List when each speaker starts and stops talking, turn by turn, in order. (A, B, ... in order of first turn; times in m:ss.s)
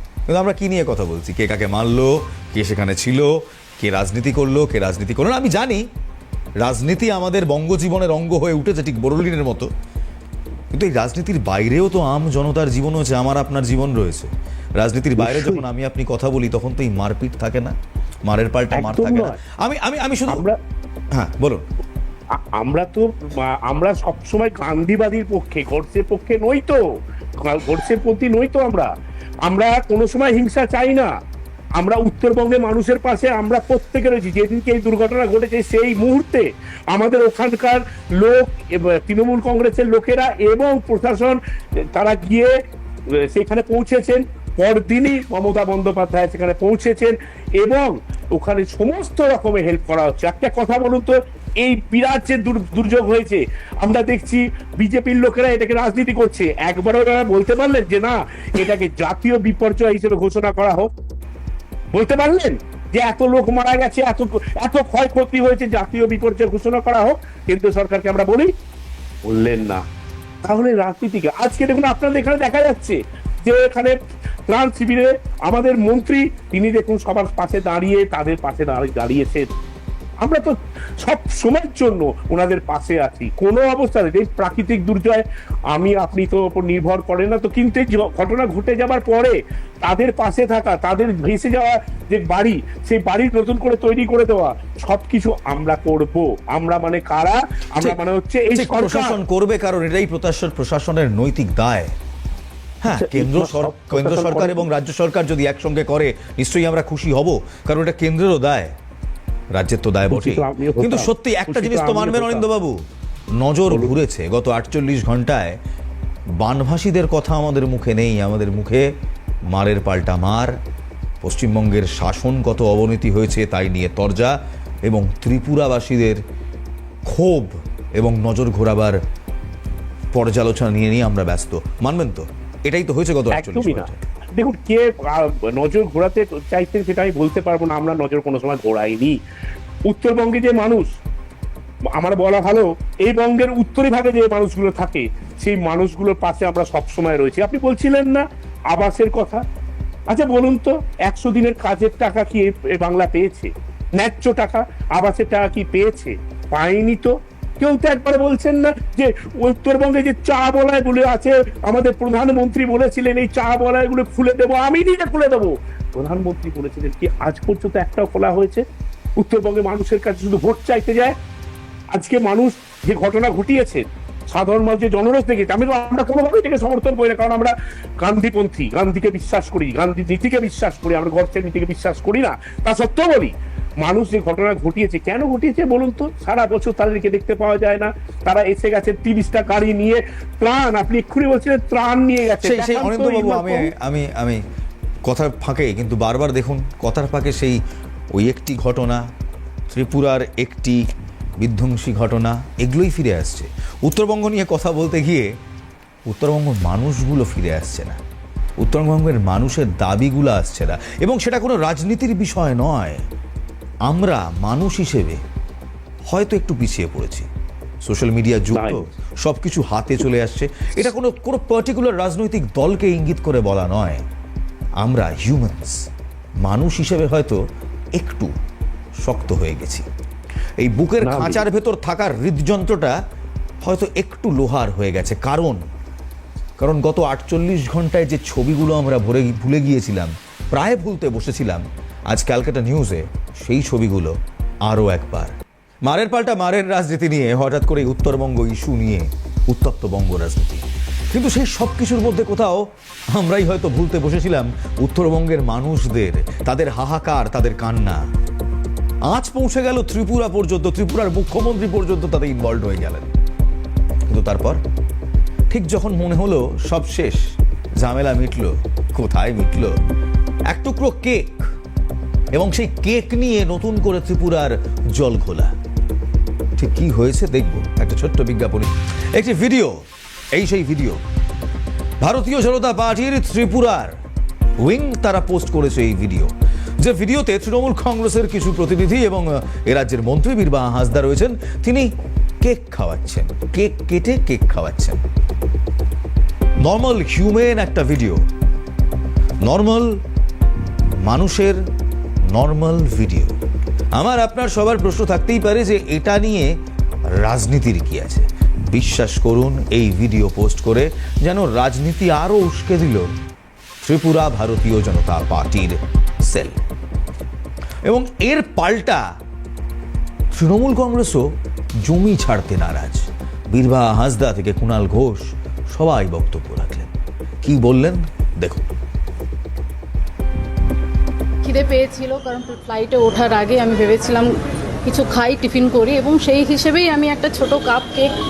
0:00.3-0:05.9 A
0:06.6-0:09.7 A
0:10.7-0:17.8 A
0:15.2-0:15.6 B
0:18.3-0:20.4 A
0:18.8-0:19.4 B
0:20.3-0:20.6 B
0:21.1-0:21.6 A
0:22.4-0:26.8 B
0:27.4-0:28.9 B
0:29.4-0:31.1 B
0:31.8-0:42.6 B
0:43.1-1:00.9 B
1:01.9-1:08.5 B
1:09.3-1:09.8 B
1:10.4-1:19.5 B
1:20.2-1:39.2 B
1:38.5-1:41.9 A
1:42.8-1:48.7 A
1:42.9-1:44.6 B
1:49.5-1:52.8 A
1:50.1-1:52.4 B
1:53.4-1:55.6 A
1:56.4-1:58.9 A
1:59.5-2:00.6 A
2:01.2-2:06.2 A
2:07.1-2:09.0 A
2:10.1-2:14.0 A
2:13.3-2:19.2 B
2:19.9-2:20.9 B
2:21.9-2:29.4 B
2:30.1-2:48.6 B
2:49.2-2:51.2 B
2:51.9-3:13.7 B
3:12.4-3:14.4 A
3:15.1-3:17.6 A
3:18.1-3:19.0 A
3:19.7-3:20.8 A
3:21.4-3:25.3 A
3:26.1-3:28.0 A
3:28.6-3:33.0 A
3:33.9-3:35.2 A
3:36.1-3:37.3 A
3:37.8-3:44.0 A
3:38.5-3:38.9 B
3:44.8-3:45.8 A
3:46.4-3:47.4 A
3:48.0-3:48.3 A
3:49.0-3:49.9 A
3:50.6-3:53.0 A
3:51.0-3:51.4 B
3:53.6-3:55.6 A
3:56.6-4:04.2 A
4:04.7-4:05.3 A
4:05.9-4:18.1 A
4:19.1-4:23.1 A
4:24.1-4:24.6 A
4:25.5-4:27.2 A
4:27.8-4:29.7 A
4:30.5-4:31.5 A
4:32.3-4:35.5 A
4:36.6-4:39.8 A
4:40.3-4:41.0 A
4:42.0-4:44.0 A
4:44.6-4:55.0 A
4:56.6-4:58.2 A
4:59.4-5:00.0 A
5:01.0-5:01.6 A
5:02.3-5:03.3 A
5:04.0-5:06.6 A
5:07.2-5:13.2 A
5:13.8-5:16.6 A
5:17.9-5:19.0 A
5:20.3-5:21.3 A
5:21.8-5:28.7 A
5:31.4-5:34.3 C
5:34.8-5:38.2 C